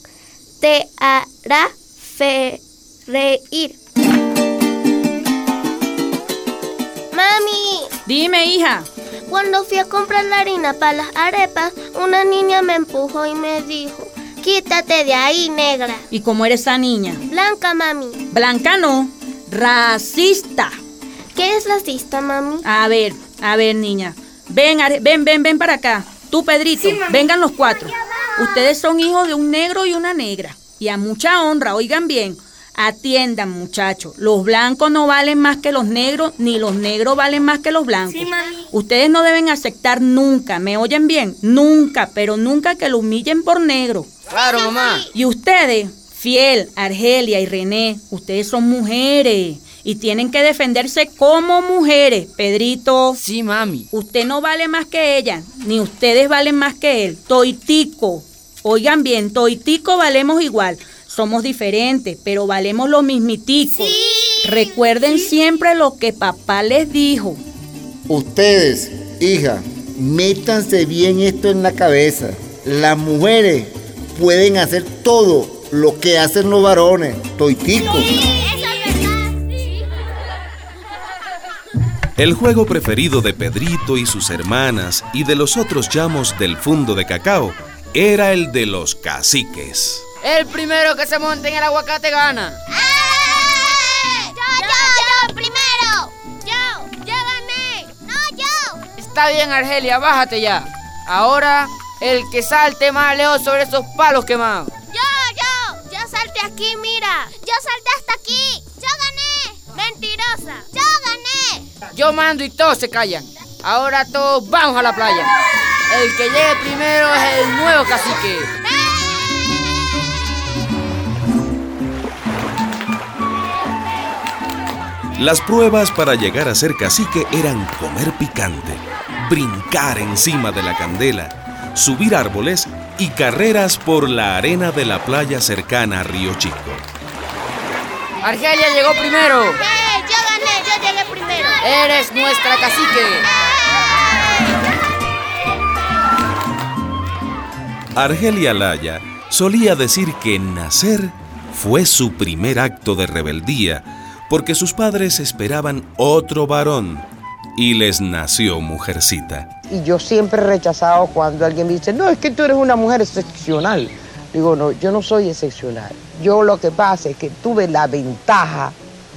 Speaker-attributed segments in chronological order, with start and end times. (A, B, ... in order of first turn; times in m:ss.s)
0:00.6-0:03.8 A
0:07.1-0:07.9 A
0:08.0-0:08.9 B
0:09.3-0:16.0 A
0:16.1-0:17.2 B
0:17.2-0:18.2 A
0:18.3-0:20.7 B
0:21.3-0:22.6 A
0:22.6-0:44.1 B
0:44.3-0:44.9 C
0:44.5-0:45.1 A
0:45.1-0:53.2 B
0:53.2-0:53.8 C
0:53.9-1:07.4 B
1:08.1-1:18.1 D
1:22.2-1:30.0 E
1:30.2-1:32.6 C
1:32.7-1:38.8 A
1:39.0-1:44.7 C
1:44.9-1:51.7 A
1:51.9-1:55.3 C
1:55.9-1:58.5 C
2:05.2-2:16.8 E
2:18.2-2:19.5 C
2:19.5-2:21.7 A
2:21.6-2:23.2 C
2:23.2-2:24.2 A
2:28.0-2:37.0 E
2:37.6-2:39.5 E
2:39.7-2:48.7 F